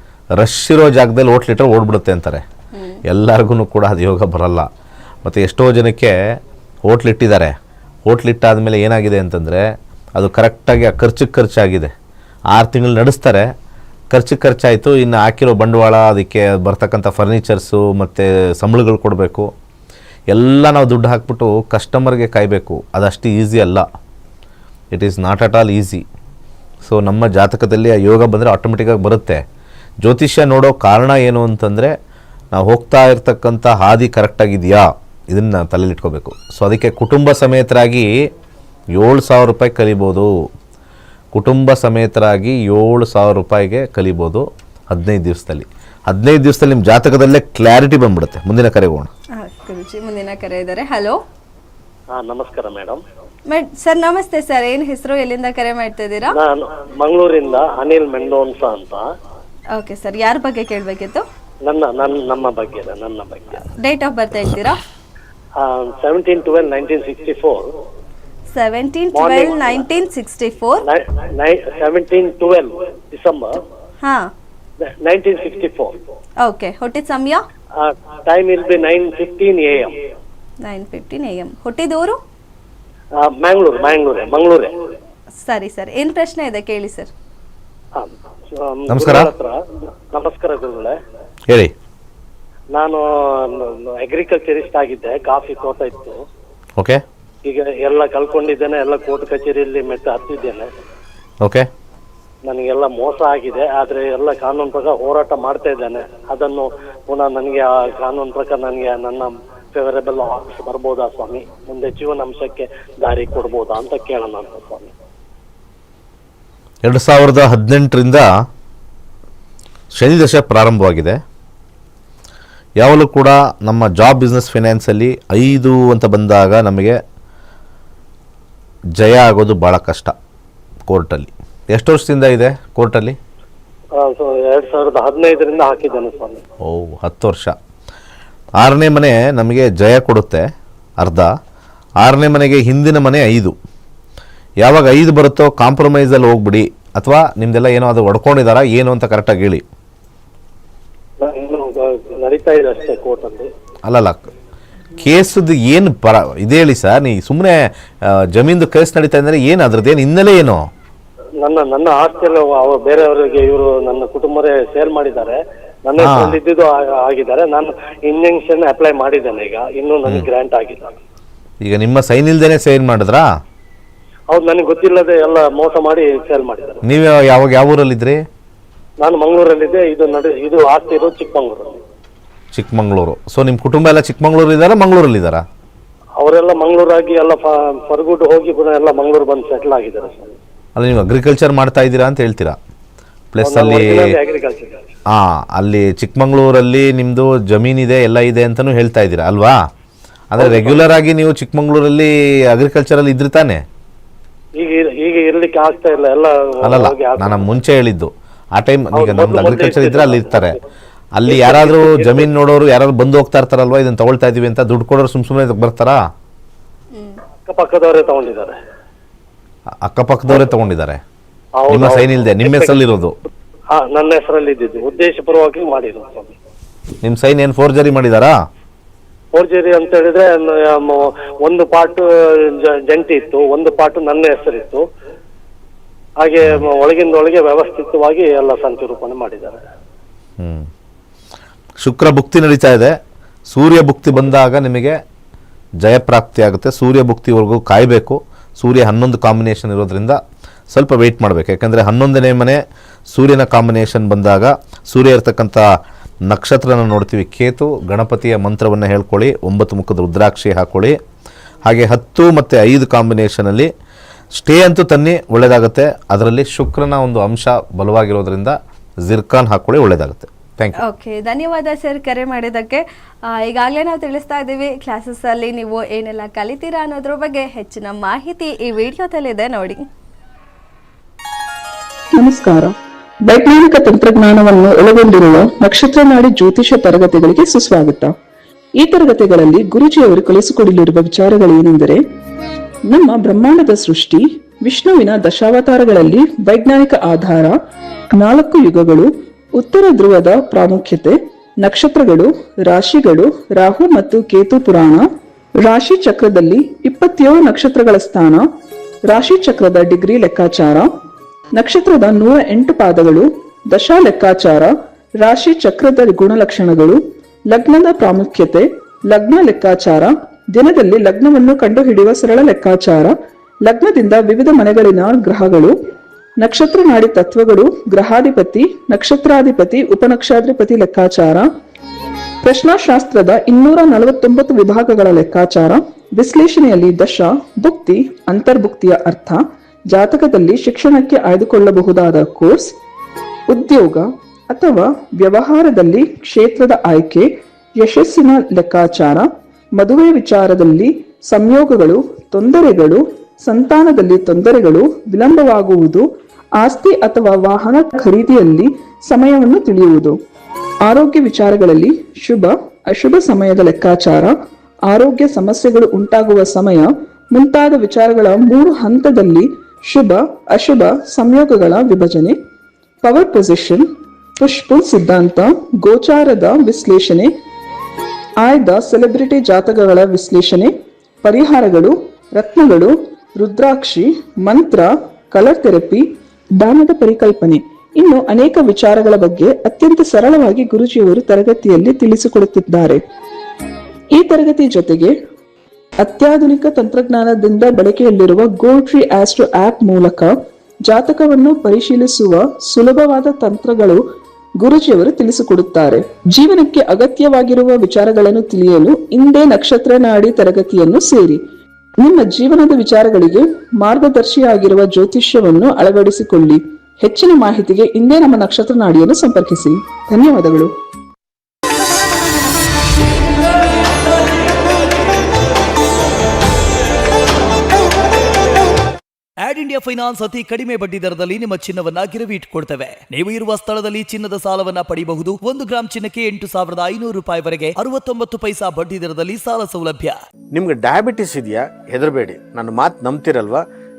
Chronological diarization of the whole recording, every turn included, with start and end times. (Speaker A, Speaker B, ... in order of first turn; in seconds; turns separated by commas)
Speaker A: 0.4-2.4, Speaker B: 2.7-3.0, Speaker A: 3.1-4.7, Speaker A: 5.2-6.4, Speaker A: 6.9-7.5, Speaker A: 8.1-11.9, Speaker A: 12.5-13.5, Speaker A: 14.1-19.5, Speaker A: 20.3-23.8, Speaker A: 24.9-26.0, Speaker A: 26.8-29.4, Speaker A: 30.0-31.9, Speaker A: 32.5-38.1, Speaker A: 39.0-40.3, Speaker A: 41.3-49.1, Speaker B: 49.4-51.2, Speaker C: 52.2-53.0, Speaker B: 53.5-56.4, Speaker C: 56.4-59.0, Speaker B: 59.8-61.2, Speaker C: 61.7-63.6, Speaker B: 63.7-64.8, Speaker C: 65.6-67.6, Speaker B: 68.5-70.9, Speaker C: 69.2-69.8, Speaker C: 70.9-73.6, Speaker B: 74.0-74.3, Speaker C: 74.9-76.0, Speaker B: 76.4-77.4, Speaker C: 77.8-80.0, Speaker B: 80.6-82.2, Speaker C: 83.2-84.8, Speaker B: 85.4-87.1, Speaker C: 88.0-89.6, Speaker A: 88.9-89.3, Speaker C: 90.1-91.0, Speaker C: 92.8-96.2, Speaker C: 97.5-100.7, Speaker C: 102.5-114.9, Speaker A: 116.9-118.3, Speaker A: 120.0-121.2, Speaker A: 122.8-127.0, Speaker A: 129.0-130.1, Speaker A: 130.9-133.2, Speaker C: 134.0-136.4, Speaker A: 136.6-137.6, Speaker A: 138.6-140.5, Speaker A: 141.0-141.3, Speaker A: 142.0-143.6, Speaker A: 144.6-149.6, Speaker C: 151.2-153.5, Speaker A: 153.9-154.3, Speaker A: 155.0-160.7, Speaker C: 161.4-171.0, Speaker A: 166.0-166.4, Speaker A: 171.7-173.3, Speaker C: 174.3-176.8, Speaker A: 176.8-178.2, Speaker C: 179.0-181.8, Speaker A: 182.5-185.4, Speaker C: 186.2-190.3, Speaker A: 190.8-192.6, Speaker A: 193.3-194.1, Speaker C: 193.4-194.8, Speaker A: 195.1-199.6, Speaker A: 200.3-203.6, Speaker C: 200.4-200.8, Speaker C: 204.6-207.4, Speaker A: 206.6-210.6, Speaker C: 209.0-210.5, Speaker A: 211.2-216.0, Speaker C: 211.3-212.3, Speaker C: 217.5-218.6, Speaker A: 219.8-221.0, Speaker C: 221.6-222.8, Speaker A: 221.7-223.2, Speaker C: 223.7-226.3, Speaker A: 227.0-228.3, Speaker C: 229.3-234.8, Speaker C: 236.2-239.6, Speaker A: 240.4-240.7, Speaker A: 241.8-242.9, Speaker A: 243.5-245.0, Speaker A: 245.8-250.2, Speaker A: 250.7-252.6, Speaker A: 253.1-255.6, Speaker A: 256.3-261.0, Speaker A: 261.7-263.7, Speaker A: 264.4-270.8, Speaker B: 270.8-279.9, Speaker D: 282.2-282.7, Speaker D: 283.2-288.1, Speaker D: 288.8-292.0, Speaker D: 292.9-297.6, Speaker D: 298.2-305.1, Speaker D: 305.6-308.4, Speaker D: 309.1-310.9, Speaker D: 311.6-325.8, Speaker D: 326.4-331.5, Speaker D: 332.4-342.7, Speaker D: 343.5-356.1, Speaker D: 356.6-360.2, Speaker D: 360.9-364.4, Speaker D: 364.9-372.4, Speaker D: 373.0-373.9, Speaker D: 374.4-377.3, Speaker D: 378.4-380.7, Speaker D: 381.2-386.1, Speaker D: 386.6-393.0, Speaker D: 394.1-395.1, Speaker D: 396.0-400.3, Speaker D: 400.9-404.0, Speaker D: 404.6-411.4, Speaker D: 412.0-420.7, Speaker E: 429.4-440.2, Speaker F: 440.5-443.6